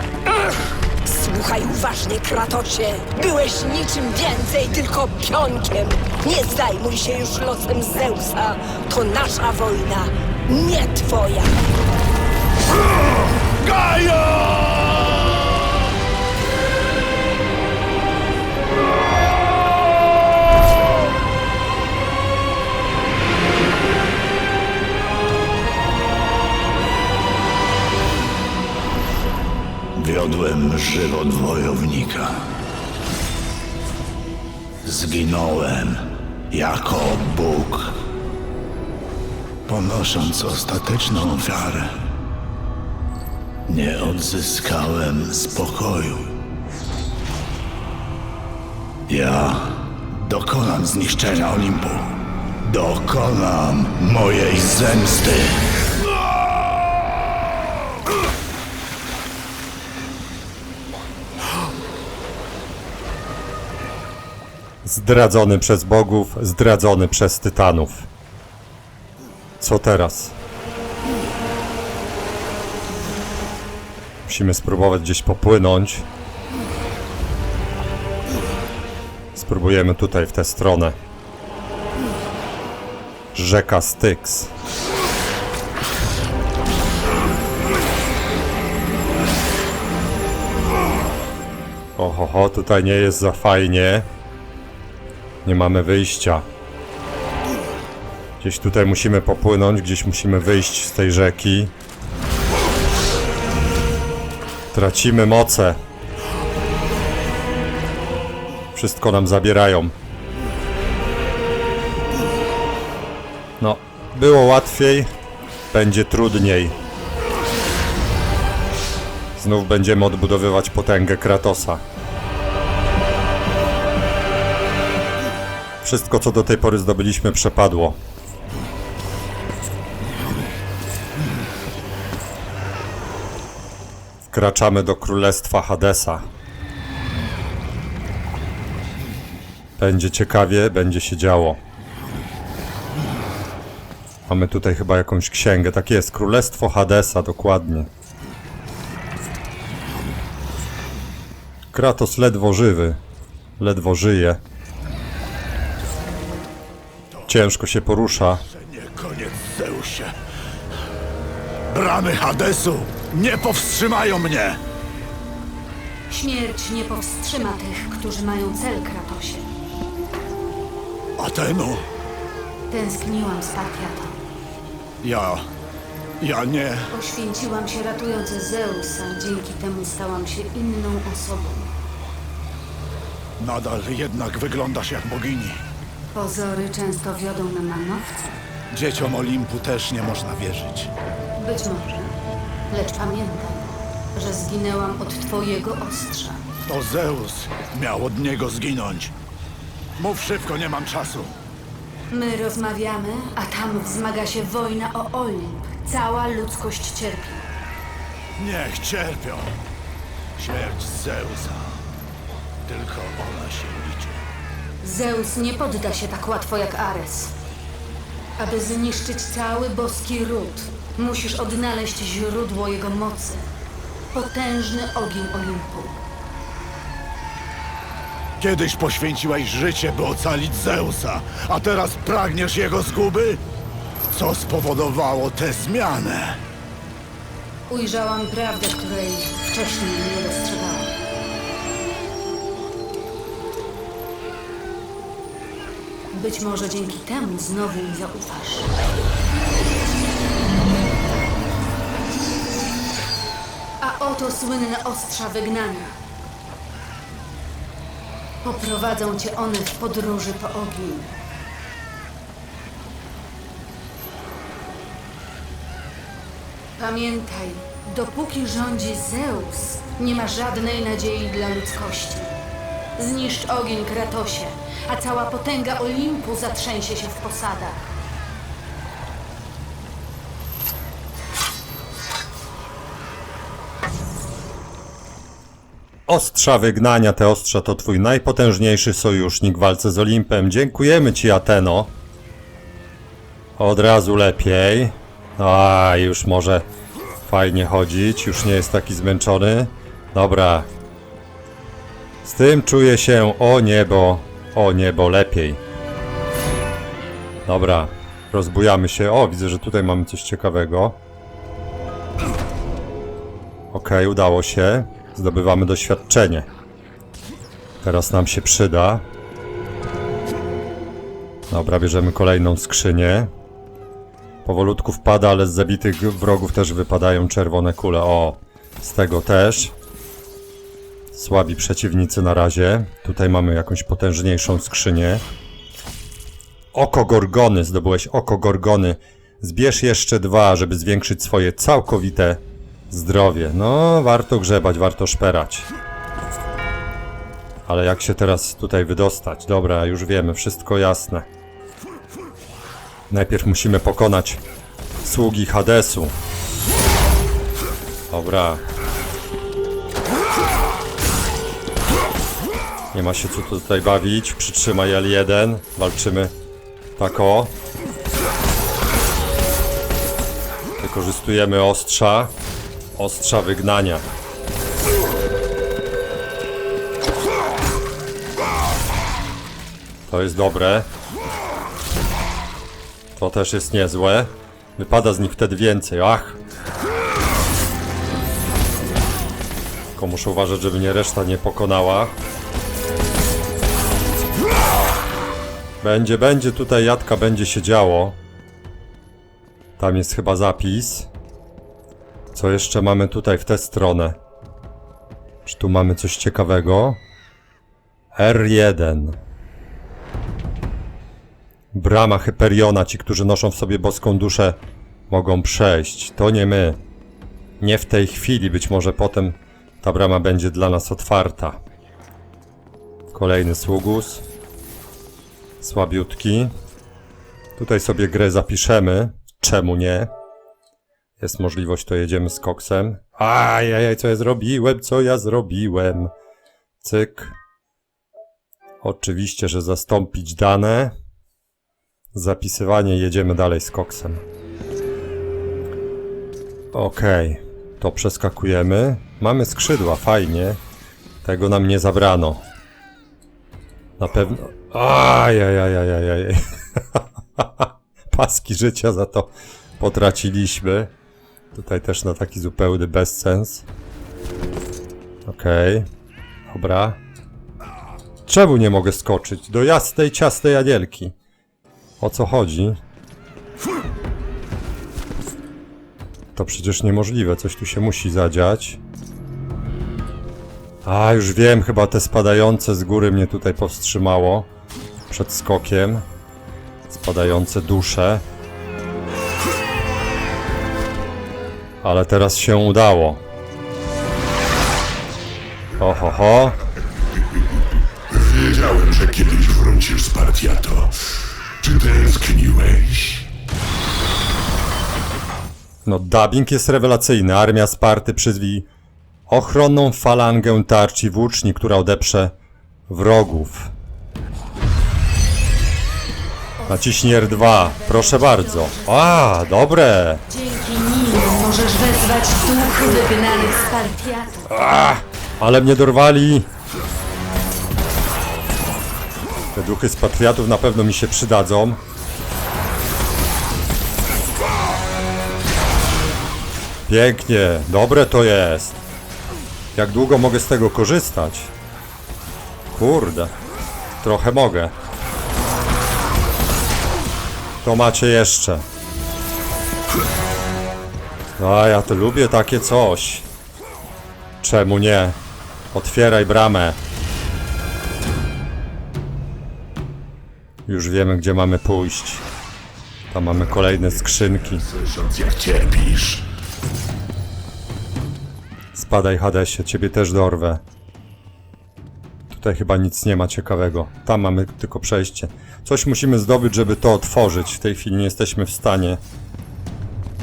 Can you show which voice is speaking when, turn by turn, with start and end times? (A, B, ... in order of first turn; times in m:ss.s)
0:01.0-0:11.6 A
0:13.5-0:15.3 B
0:30.0-0:32.4 B
0:34.8-0:38.0 B
0:39.7-0:41.9 B
0:43.7-0:46.3 B
0:49.1-0:55.6 B
1:04.8-1:08.1 C
1:09.6-1:10.3 C
1:14.2-1:16.0 C
1:19.3-1:21.0 C
1:23.3-1:24.5 C
1:32.0-1:34.1 C
1:35.4-1:36.4 C
1:38.4-1:41.7 C
1:44.7-1:45.8 C
1:48.7-1:49.9 C
1:53.6-1:55.1 C
1:55.7-1:56.8 C
1:59.4-2:01.8 C
2:05.8-2:08.0 C
2:14.3-2:16.3 C
2:19.8-2:21.6 C
2:24.2-2:27.9 C
2:31.7-2:33.0 C
2:33.6-2:34.4 C
2:37.3-2:38.4 C
2:38.5-2:40.1 B
2:41.7-2:44.6 B
2:46.1-2:49.5 D
2:51.2-2:51.8 B
2:52.7-2:54.2 D
2:55.0-2:55.4 B
2:56.2-2:56.9 B
2:56.9-3:01.7 D
3:03.4-3:05.6 B
3:06.1-3:08.2 D
3:08.7-3:10.9 B
3:11.4-3:12.1 D
3:12.7-3:16.4 D
3:16.7-3:19.1 B
3:20.0-3:21.3 B
3:22.1-3:27.5 D
3:28.4-3:29.6 B
3:30.4-3:31.8 B
3:32.7-3:34.2 B
3:34.8-3:37.3 D
3:38.4-3:43.4 D
3:44.1-3:46.0 D
3:48.4-3:53.4 B
3:54.1-3:56.4 B
3:57.7-4:00.9 D
4:06.1-4:08.7 D
4:13.8-4:15.9 D
4:18.4-4:21.1 D
4:26.8-4:32.3 D
4:33.0-4:37.8 D
4:46.1-4:51.9 C
4:53.6-4:56.7 C
4:57.2-5:00.7 C
5:02.2-5:05.6 C
5:07.4-5:11.0 C
5:13.7-5:16.5 C
5:17.8-5:19.0 C
5:21.5-5:23.3 C
5:24.4-5:29.7 C
5:31.1-5:35.2 C
5:36.7-5:45.7 C
5:47.6-5:51.3 C
5:53.1-5:54.4 C
5:55.0-5:56.2 C
5:58.1-5:58.6 C
6:02.9-6:06.3 C
6:07.0-6:07.5 C
6:10.8-6:12.3 C
6:12.9-6:14.1 C
6:20.1-6:20.9 C
6:23.1-6:26.4 C
6:29.9-6:32.2 C
6:35.8-6:38.2 C
6:39.8-6:41.1 C
6:42.3-6:44.2 C
6:45.4-6:47.0 C
6:48.1-6:49.2 C
6:51.7-6:56.8 C
6:57.6-7:01.6 C
7:03.1-7:04.2 C
7:05.6-7:06.5 C
7:07.6-7:10.1 C
7:11.2-7:16.1 C
7:16.8-7:17.4 C
7:18.8-7:20.9 C
7:22.1-7:24.2 C
7:26.7-7:30.6 C
7:31.2-7:32.4 C
7:34.0-7:40.9 C
7:41.5-7:43.6 C
7:45.2-7:45.9 C
7:46.5-7:47.0 C
7:48.2-7:51.1 C
7:52.0-7:52.8 C
7:56.3-7:58.8 C
8:00.8-8:04.5 C
8:05.1-8:06.0 C
8:06.9-8:08.2 C
8:11.8-8:13.2 C
8:15.8-8:16.6 C
8:18.4-8:20.9 E
8:21.6-8:23.2 E
8:25.8-8:28.7 C
8:29.3-8:32.3 C
8:32.9-8:33.7 C
8:36.6-8:39.3 D
8:36.7-8:40.2 C
8:40.3-8:44.5 D
8:44.5-8:46.5 C
8:49.5-8:51.8 C
8:56.9-8:58.8 C
8:59.7-9:01.5 C
9:02.7-9:03.3 C
9:04.0-9:04.7 C
9:07.6-9:08.6 C
9:11.4-9:13.2 C
9:14.4-9:15.2 C
9:15.7-9:16.8 C
9:20.6-9:22.2 C
9:23.1-9:24.6 C
9:25.1-9:26.0 E
9:25.1-9:26.0 B
9:28.7-9:30.6 C
9:32.3-9:39.0 C